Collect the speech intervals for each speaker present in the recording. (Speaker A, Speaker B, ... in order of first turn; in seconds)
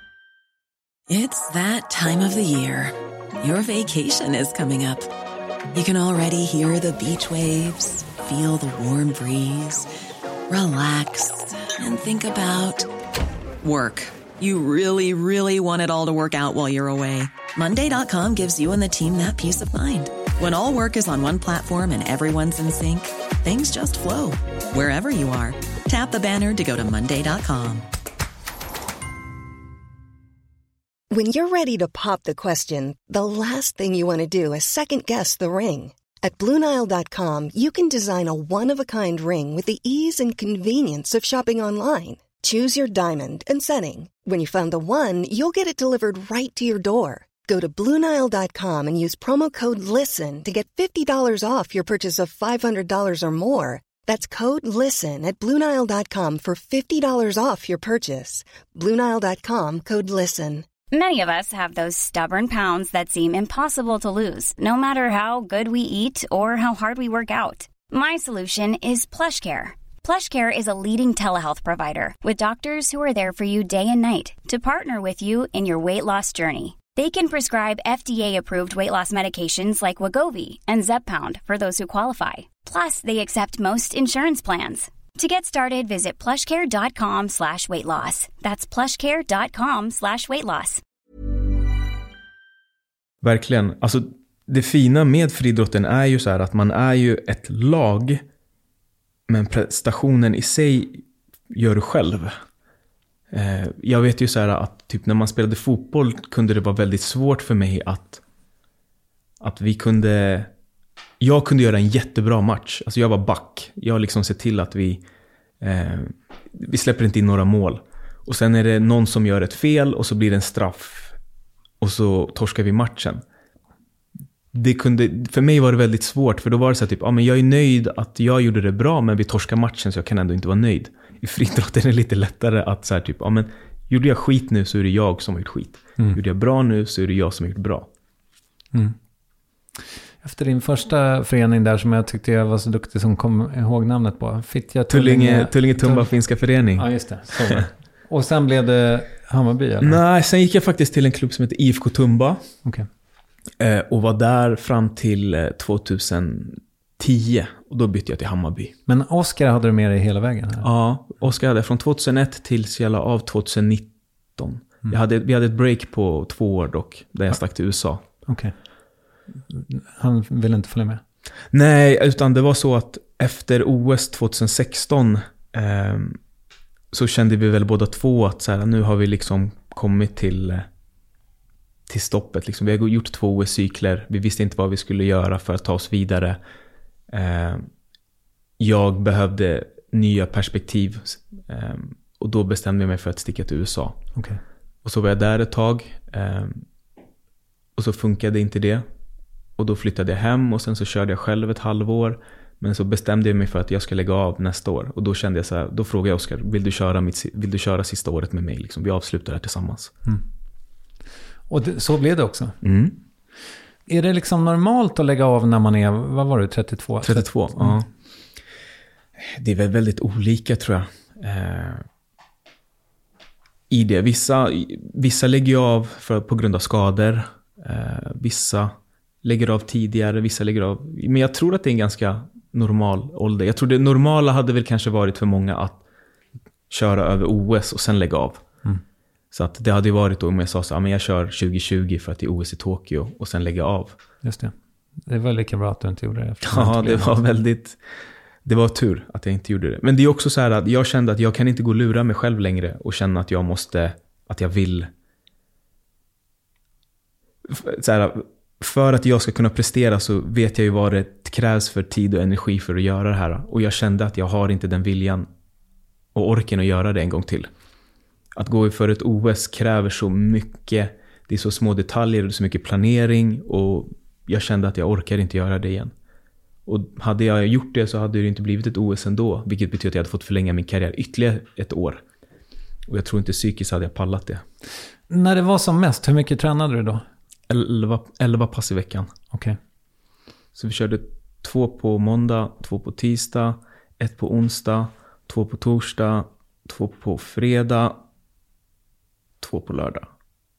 Speaker A: 1.1-5.1, 5.7-9.9, 10.5-12.9, 13.6-27.9
Speaker B: 31.1-60.7
Speaker C: 60.9-90.8
Speaker D: 93.2-98.2, 99.3-102.4, 103.3-108.2, 109.4-110.5, 111.2-115.0, 115.6-121.2, 121.8-123.2, 124.5-137.9, 144.9-147.7, 149.8-152.4, 153.6-158.7, 160.6-168.0, 171.5-176.2, 176.9-180.7, 181.9-186.4, 187.1-187.7, 188.6-194.0, 194.8-196.7, 197.8-198.9, 199.6-209.9, 212.6-213.0, 217.0-217.9, 219.2-221.8, 223.7-235.8, 236.7-238.5, 239.3-244.0, 246.4-247.8, 248.4-254.9, 257.4-265.3, 266.1-267.5, 268.4-275.9, 276.7-282.0, 282.9-284.4, 287.5-289.1, 290.6-298.0, 299.4-300.1
Speaker E: 140.2-146.1, 146.8-150.0, 158.9-160.7, 168.3-168.5, 169.5-171.0, 194.2-194.4, 211.5-212.6, 213.9-217.8, 244.2-244.5, 245.0-247.2, 285.1-287.0, 289.3-289.6